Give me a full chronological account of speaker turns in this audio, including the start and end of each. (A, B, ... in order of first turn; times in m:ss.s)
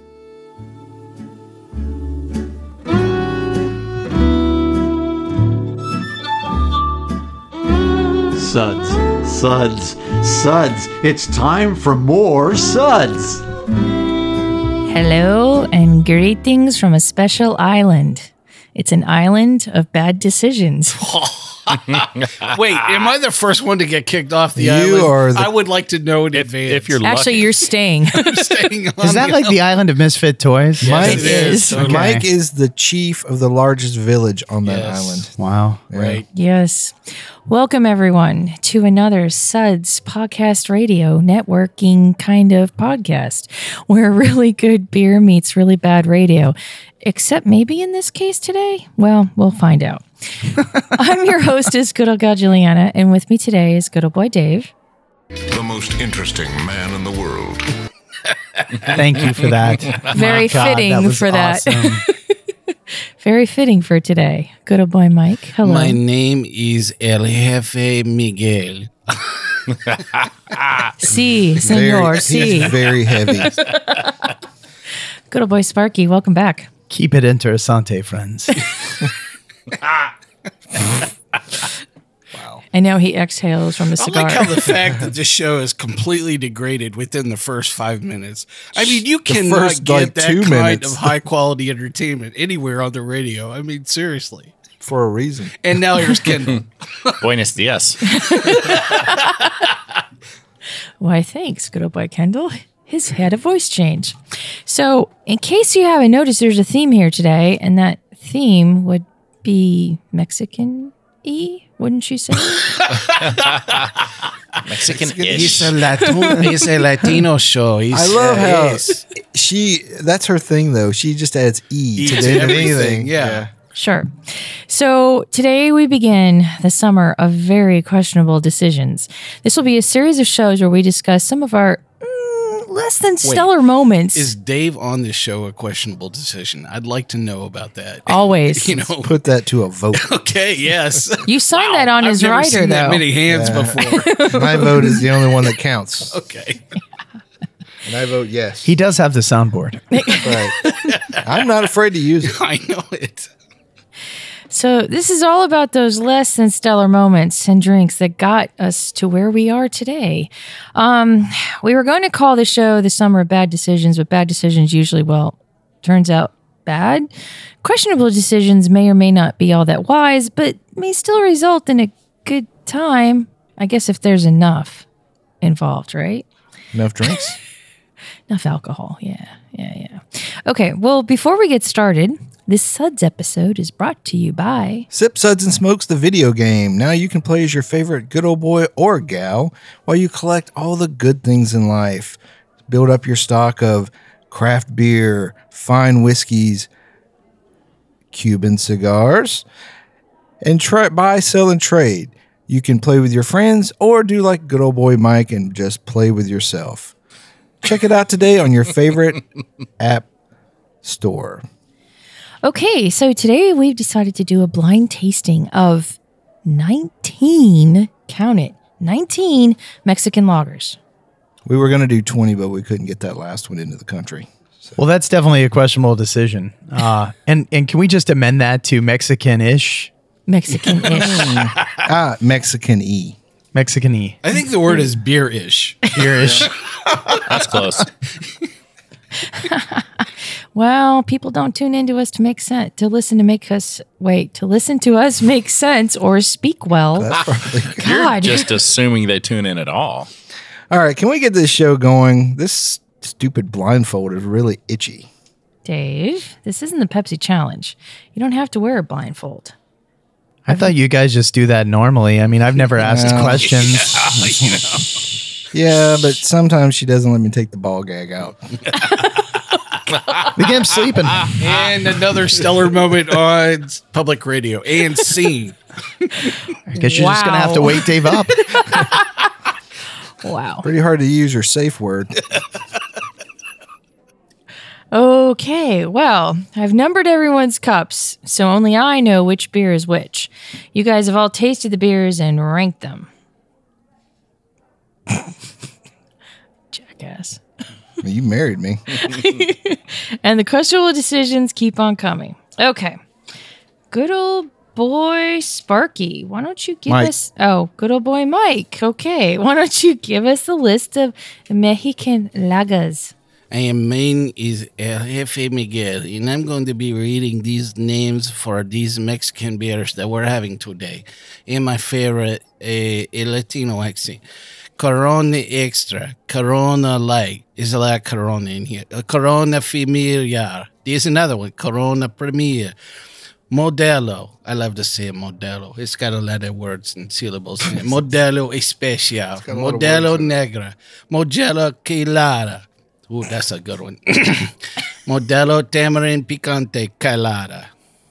0:08.4-0:13.4 A
0:14.9-0:21.0 B
0:20.9-0:27.0 C
0:24.6-0:25.5 D
0:26.3-0:27.5 E
0:27.0-0:28.5 B
0:28.1-0:29.6 C
0:29.0-0:32.2 F
0:30.8-0:32.0 C
0:30.8-0:35.3 D
0:31.0-0:31.8 B
0:34.6-0:35.3 C
0:35.4-0:35.9 F
0:35.9-0:36.2 D
0:35.9-0:36.3 C
0:36.3-0:37.0 B
0:37.5-0:54.7 B
0:55.5-0:57.7 G
0:58.9-1:02.0 F
1:00.1-1:02.3 B
1:03.2-1:06.0 B
1:05.6-1:09.6 C
1:11.0-1:12.8 B
1:11.6-1:13.5 D
1:13.6-1:14.1 B
1:15.3-1:16.7 B
1:16.9-1:18.8 F
1:22.3-1:22.6 D
1:22.7-1:24.6 B
1:24.0-1:34.5 C
1:28.8-1:31.1 D
1:34.8-1:35.6 D
1:35.6-1:37.2 C
1:37.2-1:38.0 E
1:38.1-1:39.5 B
1:38.5-1:39.0 C
1:41.0-1:52.8 B
1:52.7-1:53.5 C
1:53.1-1:53.9 E
1:54.6-1:55.8 E
1:54.9-1:55.7 D
1:55.3-1:59.0 C
1:55.9-1:56.4 B
1:57.9-2:03.5 D
2:02.0-2:03.5 C
2:03.7-2:14.3 B
2:13.2-2:13.5 C
2:14.2-2:19.2 C
2:18.1-2:18.9 B
2:19.0-2:20.1 D
2:19.9-2:24.3 C
2:21.2-2:23.1 B
2:23.3-2:26.2 D
2:23.9-2:25.0 B
2:26.1-2:26.6 C
2:27.8-2:28.7 D
2:28.6-2:29.9 F
2:29.9-2:30.7 B
2:30.2-2:30.6 D
2:30.6-2:31.2 C
2:31.1-2:32.4 D
2:32.2-2:33.3 C
2:34.5-2:47.1 B
2:47.6-2:54.9 B
2:55.4-2:56.3 B
2:56.7-2:57.4 D
2:58.3-3:04.9 B
3:04.9-3:16.7 D
3:18.1-3:19.5 D
3:20.4-3:26.9 D
3:27.6-3:29.2 D
3:29.8-3:30.1 D
3:30.8-3:31.4 D
3:32.4-3:40.8 B
3:41.5-3:44.8 D
3:44.8-3:49.9 F
3:50.3-3:51.4 B
3:50.9-3:53.2 D
3:51.2-3:51.8 C
3:53.6-3:54.2 F
3:54.2-3:56.0 C
3:55.9-3:56.5 F
3:57.3-3:57.9 E
3:59.2-4:07.2 B
4:07.0-4:07.8 D
4:07.8-4:10.1 E
4:07.8-4:08.5 B
4:10.7-4:15.1 D
4:15.6-4:19.5 B
4:20.5-4:25.0 F
4:20.5-4:20.7 B
4:22.8-4:23.5 D
4:23.0-4:24.8 C
4:25.5-4:28.4 D
4:30.3-4:31.4 F
4:31.3-4:36.3 C
4:36.7-4:38.5 F
4:36.7-4:39.3 B
4:40.2-4:40.7 B
4:40.6-4:42.2 D
4:44.9-4:53.1 B
4:56.7-4:57.4 B
4:58.0-4:59.0 D
4:59.0-5:03.0 B
5:03.9-5:13.1 B
5:06.9-5:07.1 F
5:13.5-5:24.2 C
5:24.8-5:32.7 C
5:33.5-5:47.7 C
5:39.4-5:40.4 D